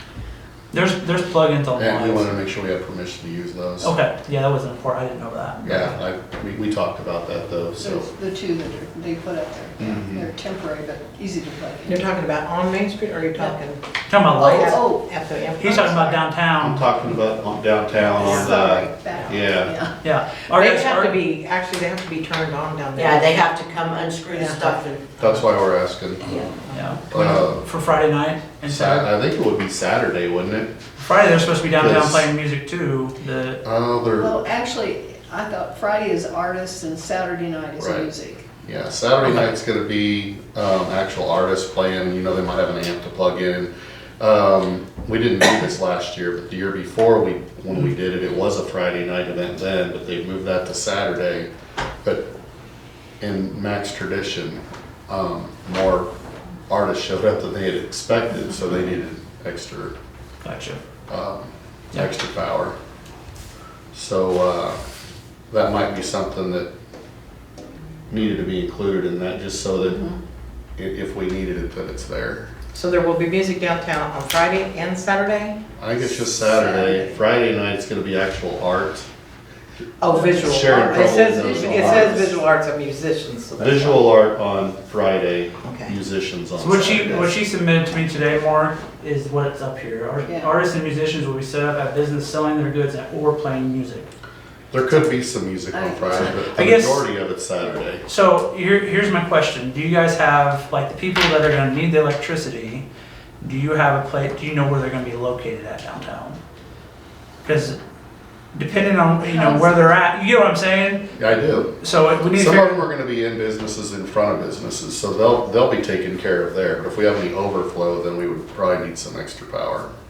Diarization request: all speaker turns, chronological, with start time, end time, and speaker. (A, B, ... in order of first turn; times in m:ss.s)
0:00.7-0:02.3 A
0:01.8-0:03.9 B
0:03.8-0:06.0 A
0:05.6-0:08.1 B
0:07.8-0:12.0 C
0:09.8-0:10.2 B
0:11.8-0:16.2 D
0:14.1-0:14.8 A
0:14.4-0:15.1 C
0:15.6-0:16.9 A
0:16.6-0:19.8 B
0:17.9-0:19.9 C
0:18.2-0:19.3 D
0:18.2-0:18.5 A
0:20.0-0:21.1 A
0:20.5-0:23.4 D
0:22.9-0:25.1 E
0:25.2-0:26.4 B
0:26.2-0:26.6 E
0:26.7-0:29.1 A
0:27.1-0:27.6 B
0:28.6-0:30.7 B
0:31.0-0:33.6 A
0:31.8-0:32.3 B
0:33.6-0:34.3 B
0:34.2-0:38.4 C
0:37.8-0:38.1 B
0:38.6-0:51.5 B
0:53.2-0:56.1 B
0:56.7-0:59.9 B
1:00.4-1:00.8 A
1:01.1-1:02.7 B
1:03.9-1:04.8 B
1:05.5-1:06.7 B
1:08.1-1:10.1 B
1:10.8-1:12.5 B
1:12.7-1:15.6 D
1:15.8-1:19.1 B
1:16.1-1:17.1 D
1:20.0-1:24.1 D
1:20.1-1:22.3 C
1:20.3-1:22.3 B
1:23.6-1:27.3 B
1:25.6-1:26.0 D
1:26.6-1:34.1 A
1:30.2-1:30.5 C
1:34.7-1:38.0 B
1:35.7-1:36.4 C
1:36.5-1:37.0 A
1:38.0-1:42.8 A
1:43.4-1:46.4 A
1:47.4-1:47.8 A
1:48.5-1:52.8 A
1:49.2-1:49.7 C
1:51.2-1:51.7 B
1:52.3-1:59.9 B